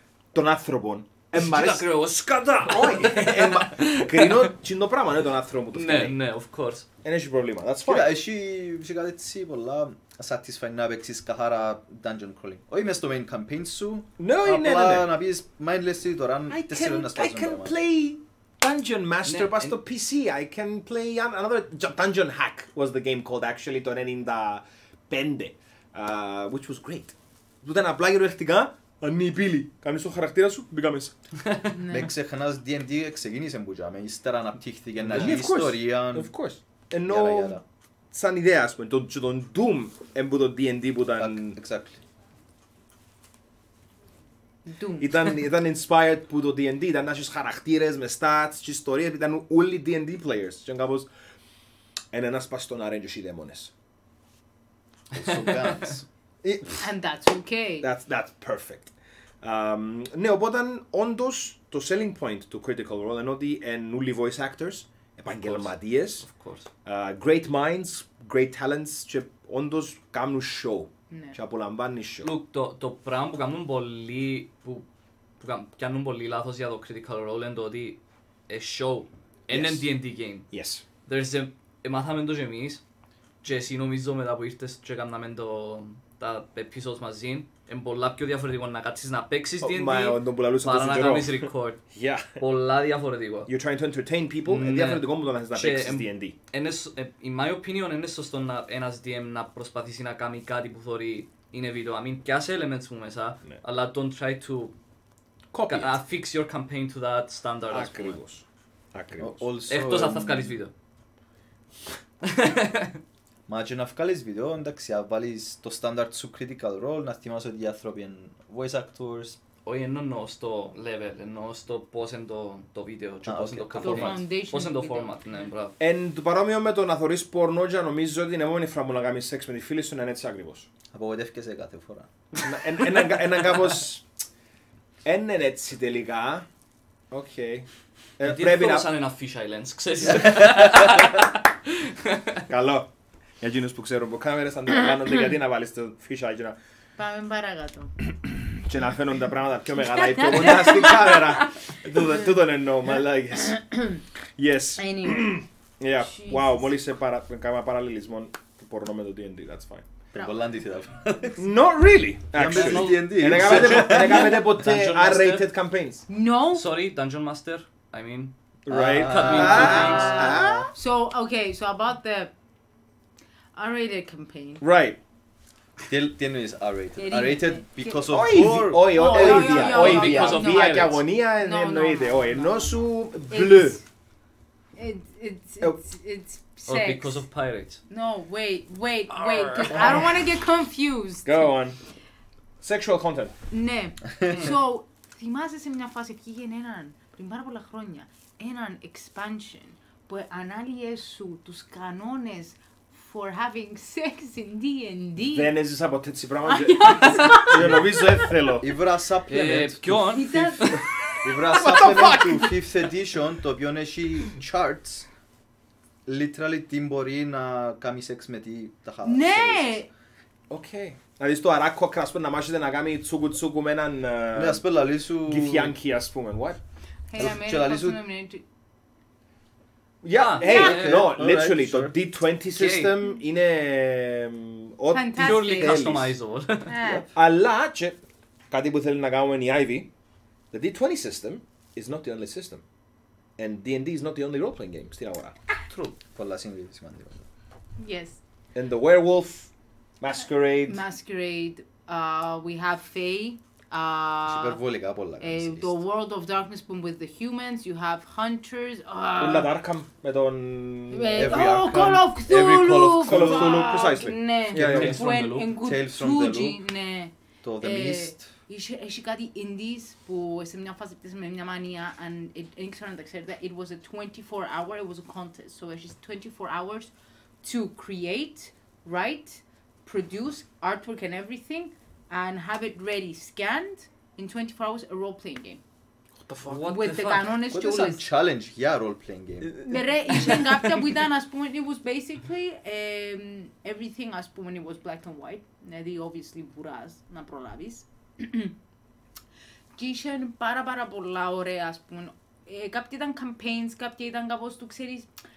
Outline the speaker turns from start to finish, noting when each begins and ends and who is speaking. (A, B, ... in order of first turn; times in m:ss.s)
0:00.3-0:01.8 A
0:01.3-0:04.5 B
0:02.6-0:06.1 A
0:05.7-0:06.8 B
0:07.0-0:08.1 A
0:07.8-0:17.7 C
0:14.2-0:15.1 A
0:16.5-0:31.1 A
0:19.2-0:19.7 B
0:31.7-0:32.1 D
0:31.9-0:36.3 C
0:35.0-0:41.6 A
0:35.1-0:35.4 B
0:37.1-0:37.6 C
0:41.2-0:42.0 C
0:44.6-0:45.1 D
0:45.0-0:51.1 A
0:52.1-0:53.7 A
0:55.1-0:56.1 C
0:55.1-0:55.8 B
0:56.4-0:56.8 A
0:56.8-0:57.8 D
0:57.8-1:06.3 A
1:05.3-1:06.7 B
1:06.8-1:12.3 A
1:11.1-1:11.4 D
1:12.2-1:14.8 B
1:15.4-1:20.5 B
1:19.5-1:19.9 A
1:20.5-1:20.8 A
1:21.0-1:22.8 B
1:23.4-1:33.5 B
1:29.6-1:32.4 A
1:33.5-1:36.3 A
1:34.4-1:44.7 B
1:45.5-1:45.9 A
1:45.7-1:48.2 B
1:47.7-1:49.4 A
1:49.2-1:50.5 C
1:49.7-1:50.7 B
1:52.2-1:53.0 B
1:53.5-1:59.4 C
1:59.6-2:05.7 B
2:03.2-2:04.2 C
2:03.8-2:05.5 D
2:05.8-2:10.7 A
2:10.9-2:12.6 C
2:12.4-2:14.0 A
2:15.0-2:16.4 A
2:17.1-2:18.8 A
2:18.2-2:22.4 B
2:20.1-2:20.9 C
2:22.5-2:26.6 A
2:27.0-2:27.9 D
2:28.6-2:33.8 A
2:29.8-2:32.1 D
2:33.5-2:34.0 D
2:34.4-2:39.8 A
2:34.8-2:35.3 D
2:36.0-2:36.7 D
2:40.1-2:41.4 C
2:41.4-2:46.0 A
2:42.3-2:44.4 C
2:42.4-2:45.4 B
2:46.1-2:46.6 D
2:46.5-2:50.2 B
2:48.6-2:50.7 A
2:48.7-2:50.7 C
2:49.3-2:52.3 D
2:53.6-2:54.6 D
2:54.6-2:55.0 A
2:55.9-3:00.0 C
2:57.0-3:03.8 D
2:58.1-3:03.8 A
2:59.2-3:01.0 B
3:04.8-3:07.2 D
3:06.7-3:07.8 B
3:07.9-3:11.5 D
3:09.1-3:10.2 A
3:11.2-3:11.8 A
3:12.6-3:13.3 A
3:13.5-3:25.5 D
3:14.3-3:14.6 B
3:25.3-3:28.7 A
3:26.4-3:28.3 D
3:27.5-3:27.9 C
3:28.6-3:30.5 C
3:29.3-3:31.8 B
3:30.1-3:32.2 D
3:31.2-3:35.1 C
3:31.7-3:32.4 A
3:36.0-3:39.8 C
3:39.0-3:39.9 D
3:40.5-3:44.6 A
3:44.3-3:45.7 C
3:45.2-3:46.6 A
3:47.1-3:48.4 D
3:47.2-3:48.0 C
3:50.0-3:56.1 A
3:50.1-3:51.1 B
3:50.4-3:51.9 C
3:50.4-3:50.8 D
3:52.5-3:52.9 B
3:54.9-3:55.8 D
3:55.2-3:56.7 B
3:56.6-3:57.0 D
3:57.1-3:59.9 A
4:00.5-4:02.6 A
4:03.4-4:05.3 A
4:05.7-4:05.9 B
4:06.1-4:07.2 C
4:07.8-4:08.2 D
4:08.5-4:10.8 A
4:10.7-4:14.6 D
4:14.3-4:15.8 C
4:15.2-4:19.5 D
4:19.2-4:21.5 A
4:20.9-4:45.6 D
4:21.1-4:23.7 C
4:23.0-4:25.0 A
4:24.5-4:25.5 B
4:24.5-4:26.6 C
4:27.4-4:28.3 C
4:46.2-4:46.6 A
4:46.4-4:47.3 B
4:46.6-4:48.0 D
4:47.5-4:49.6 C
4:49.6-4:58.5 D
4:59.8-5:05.1 D